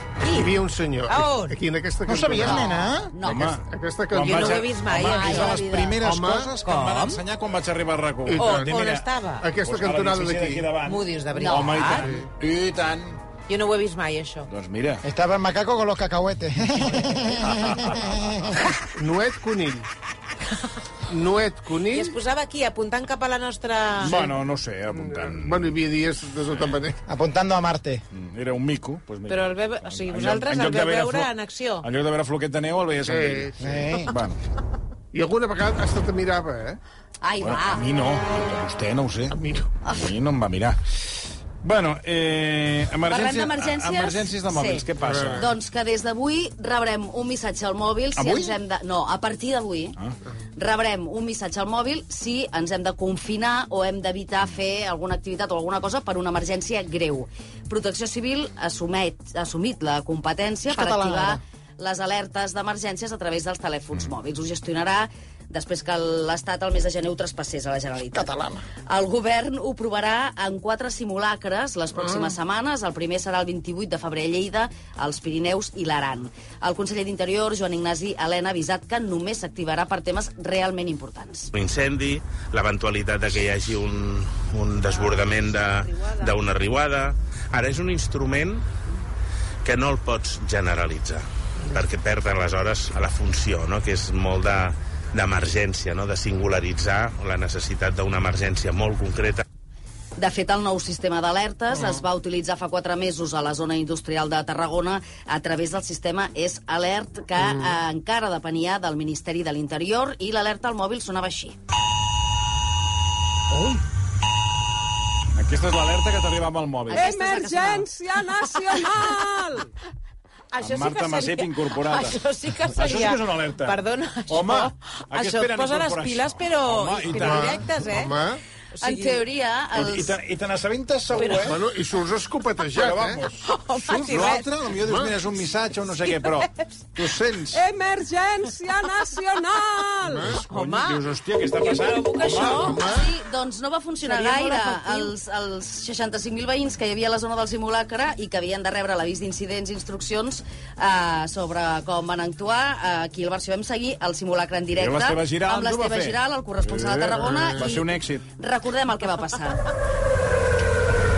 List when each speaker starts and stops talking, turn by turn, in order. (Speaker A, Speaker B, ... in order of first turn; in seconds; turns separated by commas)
Speaker A: 0.2-0.5, Speaker B: 0.3-2.9, Speaker A: 1.1-1.6, Speaker C: 2.0-3.1, Speaker D: 2.4-3.6, Speaker E: 3.2-13.2, Speaker B: 3.6-4.8, Speaker A: 4.3-6.0, Speaker D: 5.0-5.9, Speaker B: 5.9-6.6, Speaker A: 6.6-7.2, Speaker B: 8.2-8.9, Speaker A: 8.4-9.5, Speaker B: 9.4-10.8, Speaker A: 10.8-12.1, Speaker D: 11.3-11.8, Speaker B: 11.9-12.3, Speaker A: 13.5-14.5, Speaker E: 14.5-15.0, Speaker C: 15.0-18.6, Speaker B: 18.9-19.9, Speaker B: 21.1-22.1, Speaker A: 21.9-24.1, Speaker E: 24.0-25.8, Speaker B: 24.0-24.4, Speaker B: 24.9-27.0, Speaker E: 26.5-26.8, Speaker C: 27.1-28.0, Speaker E: 28.1-34.4, Speaker A: 29.3-31.9, Speaker B: 33.0-34.0, Speaker C: 33.6-34.1, Speaker B: 35.1-36.8, Speaker D: 37.2-37.9, Speaker E: 37.4-40.8, Speaker B: 39.4-39.7, Speaker D: 39.9-40.1, Speaker E: 41.6-45.5, Speaker D: 43.1-50.0, Speaker B: 45.0-45.5, Speaker E: 48.1-48.6, Speaker D: 50.6-68.3, Speaker C: 60.7-61.4, Speaker C: 68.1-68.7, Speaker D: 68.9-81.5, Speaker B: 72.0-72.3, Speaker F: 81.5-88.7, Speaker F: 89.6-99.4, Speaker D: 100.2-111.6, Speaker B: 101.7-102.0, Speaker B: 107.4-107.7, Speaker B: 113.5-113.8, Speaker E: 115.4-117.1, Speaker D: 116.9-117.9, Speaker A: 116.9-119.7, Speaker A: 120.5-128.2, Speaker E: 120.6-122.2, Speaker E: 122.7-127.6, Speaker B: 127.1-128.4, Speaker A: 128.7-129.2, Speaker D: 128.8-130.2, Speaker E: 129.7-131.6, Speaker A: 131.2-131.6, Speaker B: 131.4-133.3, Speaker E: 132.7-137.7, Speaker A: 133.4-134.5, Speaker B: 134.8-135.3, Speaker A: 136.0-136.5, Speaker B: 137.6-140.4, Speaker A: 137.7-142.9, Speaker E: 140.2-142.7, Speaker B: 142.3-143.1, Speaker D: 142.7-159.6, Speaker A: 144.0-145.1, Speaker E: 154.8-158.3, Speaker B: 157.3-157.7